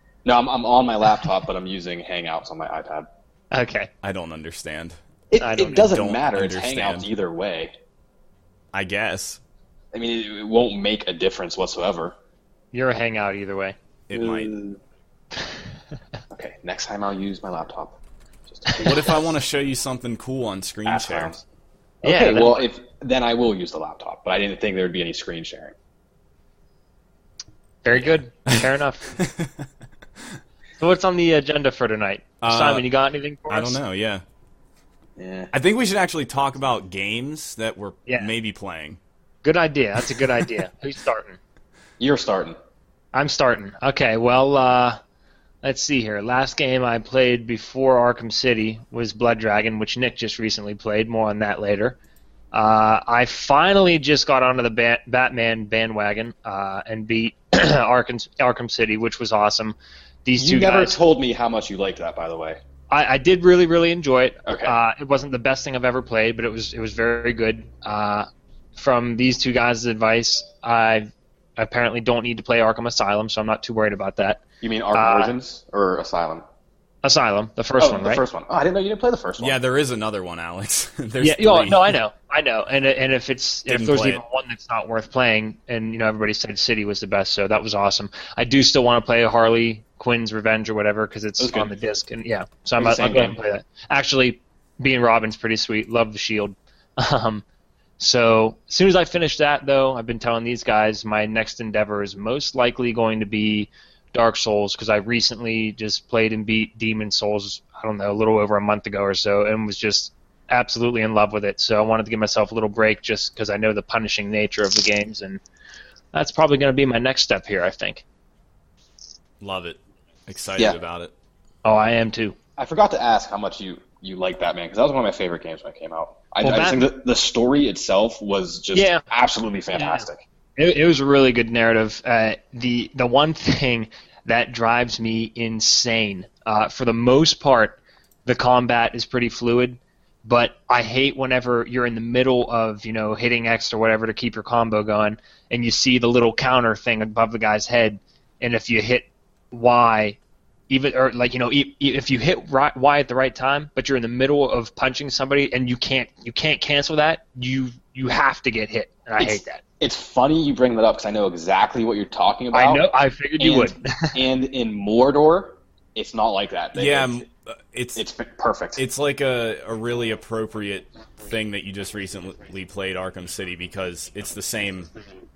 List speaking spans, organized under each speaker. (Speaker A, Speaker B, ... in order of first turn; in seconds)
Speaker A: 0.2-3.1, 5.3-7.7, 9.9-12.1, 14.1-14.8, 16.3-18.0, 18.5-19.0, 20.9-21.4, 22.0-25.7, 35.2-35.5, 42.0-42.5, 60.4-62.6, 64.5-64.7, 74.6-76.4, 77.8-79.5, 91.4-91.7, 92.8-93.4, 122.6-130.2, 159.2-162.8, 163.4-167.2, 167.9-168.8
Speaker B: 3.5-3.9, 5.4-5.9, 12.7-13.7, 22.0-22.6, 27.8-29.1, 30.8-33.8, 39.4-41.4, 43.1-45.0, 45.6-52.0, 52.5-60.9, 62.9-74.4, 74.9-75.3, 77.0-78.2, 81.2-97.4, 98.0-115.4, 116.1-118.0, 121.6-122.3, 126.4-126.9, 128.7-129.0, 129.7-130.0, 130.6-150.2, 150.7-159.6, 162.5-164.2
Speaker C: 4.0-5.0, 5.8-7.1, 8.7-9.4, 14.1-14.5, 18.7-21.3, 27.9-29.6, 32.4-32.9, 33.5-34.2, 35.5-39.0, 79.4-82.0, 83.7-84.2, 119.4-121.1, 166.7-168.0, 168.8-174.9